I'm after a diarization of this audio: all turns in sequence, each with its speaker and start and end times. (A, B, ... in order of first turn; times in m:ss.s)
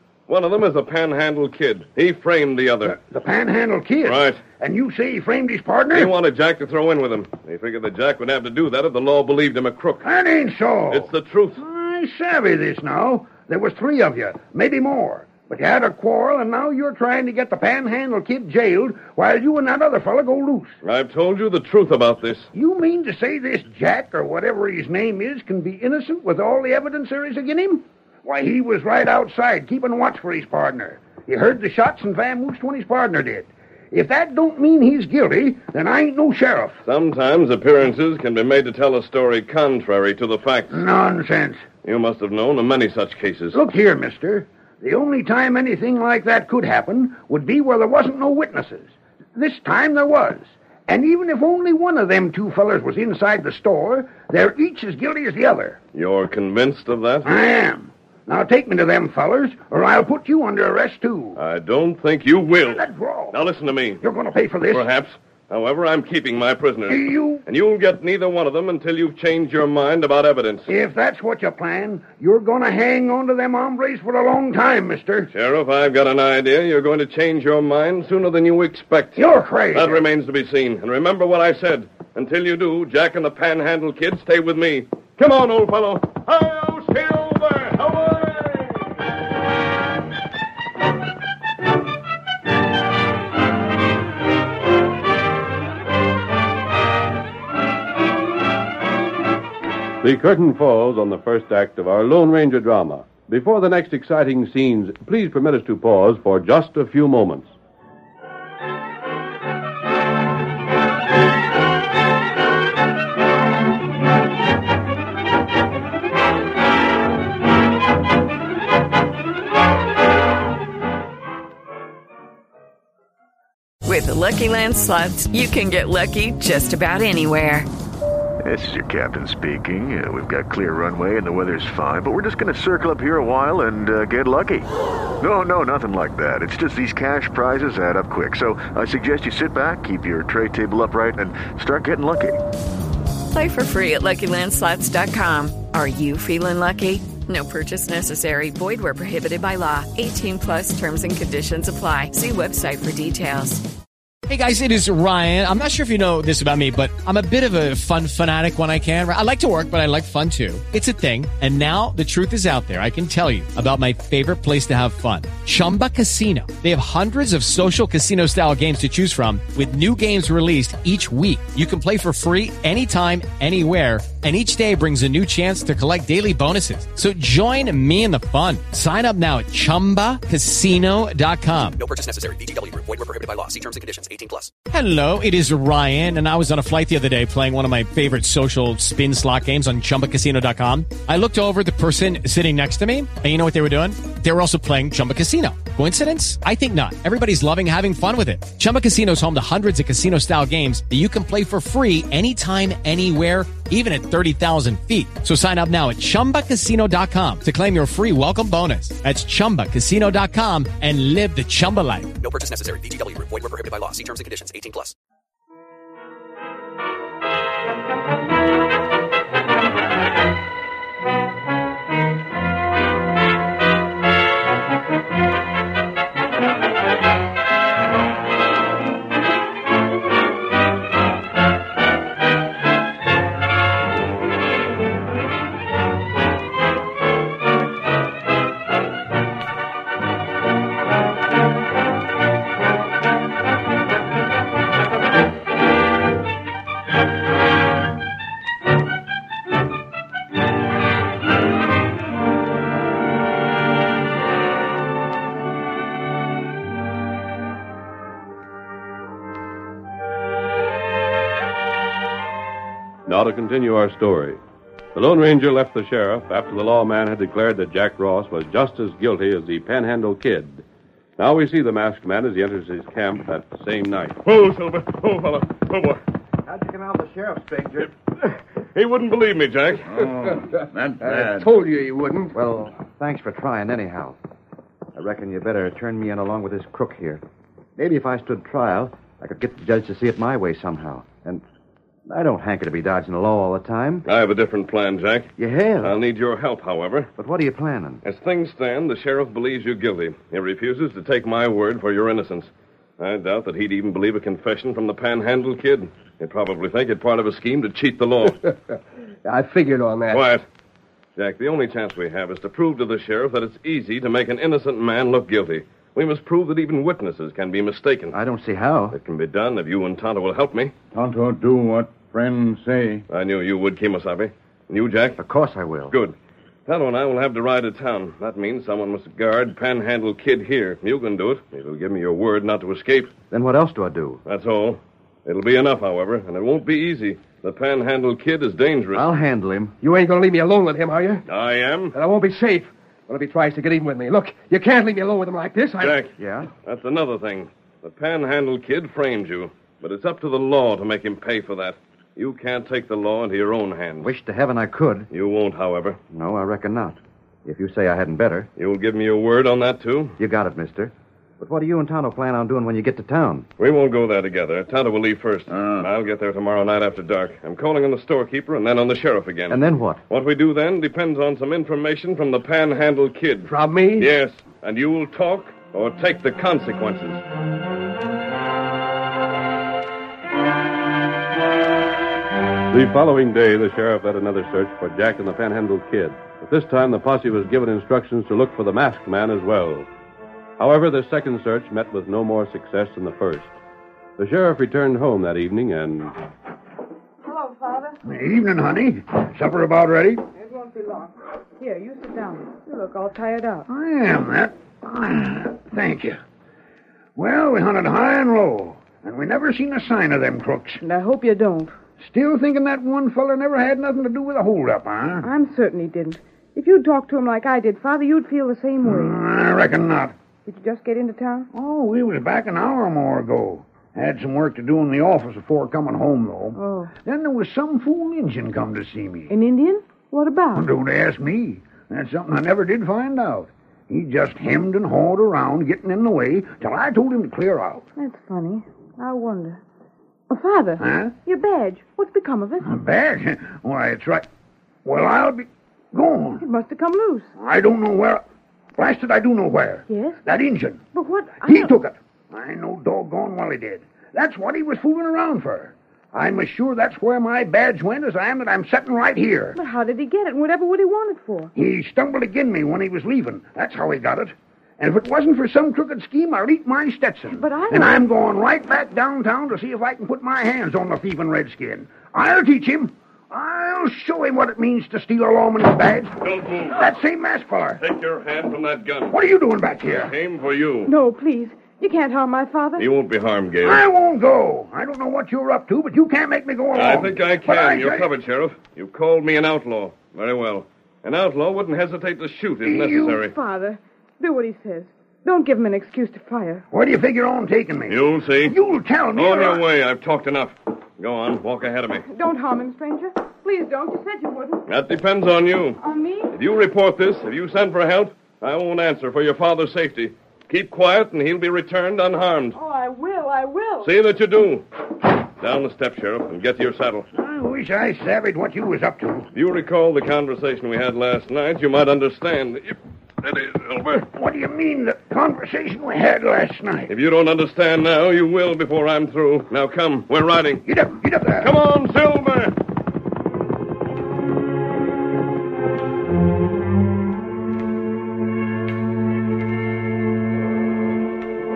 0:00.3-0:03.0 A
0:03.0-0:06.1 B
0:04.0-0:04.4 A
0:05.9-0:10.1 A
0:10.0-0:20.8 B
0:10.9-0:11.6 A
0:20.8-0:22.5 A
0:22.5-0:36.8 B
0:36.8-0:40.8 A
0:40.7-0:41.6 B
0:41.8-0:43.6 A
0:43.5-0:55.8 B
0:55.9-0:57.3 A
0:57.2-1:01.4 B
1:01.4-1:04.0 A
1:02.6-1:03.4 B
1:04.0-1:04.9 B
1:04.7-1:10.7 A
1:06.9-1:07.4 B
1:10.7-1:15.3 B
1:15.3-1:29.0 A
1:19.2-1:20.0 B
1:40.0-1:47.5 C
2:03.8-2:07.7 D
2:08.4-2:14.7 E
2:15.2-2:22.4 E
2:23.3-2:33.6 D
2:34.3-3:01.8 F
3:01.8-3:04.5 G
3:04.7-3:32.1 F
3:32.2-3:34.9 G
4:23.0-4:24.4 C
4:24.9-4:30.6 C
4:31.2-4:34.2 C
4:34.2-4:36.0 A
4:36.4-4:37.9 H
4:38.7-4:40.0 A
4:39.9-4:41.5 I
4:40.4-4:42.3 J
4:42.3-4:44.2 H
4:44.9-4:47.2 H
4:47.8-4:51.4 H
4:52.1-4:54.0 H
4:54.0-4:57.1 A
4:55.4-4:56.0 H
4:57.2-4:58.0 H
4:58.0-5:08.4 A
5:09.2-5:10.2 J
5:10.1-5:10.4 A
5:11.2-5:18.2 A
5:18.1-5:19.0 H
5:18.9-5:20.7 A
5:20.9-5:23.0 I
5:23.1-5:25.2 A
5:25.2-5:26.0 H
5:25.9-5:26.1 A
5:26.7-5:33.1 A
5:33.3-5:34.2 H
5:34.2-5:39.0 A
5:38.9-5:39.8 H
5:39.8-5:41.2 J
5:41.3-5:41.9 A
5:41.9-5:46.0 J
5:45.8-5:46.1 A
5:46.2-5:46.5 H
5:46.6-5:54.1 A
5:54.0-5:55.1 H
5:55.1-5:56.0 A
5:56.1-5:58.5 H
5:58.6-6:00.2 A
6:00.2-6:03.4 H
6:03.6-6:17.2 A
6:05.5-6:05.9 I
6:09.5-6:10.0 H
6:13.5-6:14.1 J
6:22.7-6:29.9 C
6:30.6-6:33.5 C
6:34.2-6:36.2 C
6:37.2-6:38.0 K
6:38.0-6:40.2 B
6:40.4-6:43.6 K
6:43.7-6:46.2 B
6:47.2-6:50.8 B
6:50.8-6:51.7 K
6:52.0-6:55.2 B
6:55.2-6:59.2 K
6:58.8-7:00.1 B
7:00.4-7:01.5 K
7:01.5-7:09.3 B
7:06.5-7:06.9 K
7:09.3-7:10.7 K
7:10.5-7:17.8 B
7:18.0-7:19.6 K
7:20.3-7:22.8 K
7:20.8-7:21.1 B
7:22.6-7:24.2 B
7:24.8-7:26.4 B
7:26.4-7:27.3 K
7:27.4-7:28.2 B
7:28.8-7:30.8 B
7:29.9-7:30.2 K
7:30.9-7:31.8 K
7:31.4-7:39.6 B
7:39.5-7:41.5 K
7:41.6-7:57.8 B
7:47.3-7:48.1 K
7:56.2-7:56.9 A
7:57.8-7:59.2 A
7:59.1-8:00.1 B
7:59.9-8:00.9 A
8:00.8-8:02.9 K
8:02.8-8:03.8 A
8:03.6-8:08.1 B
8:06.7-8:13.3 A
8:12.6-8:13.2 B
8:13.1-8:16.6 K
8:16.7-8:19.6 B
8:17.9-8:18.6 A
8:19.1-8:22.0 A
8:22.1-8:24.6 K
8:24.7-8:25.8 A
8:25.8-8:26.3 K
8:26.3-8:32.6 A
8:32.5-8:33.9 K
8:33.8-8:34.6 A
8:35.4-8:37.0 A
8:37.1-8:39.3 B
8:39.3-8:44.1 A
8:44.2-8:46.9 B
8:46.9-8:50.7 A
8:50.6-8:51.5 B
8:51.3-8:52.6 A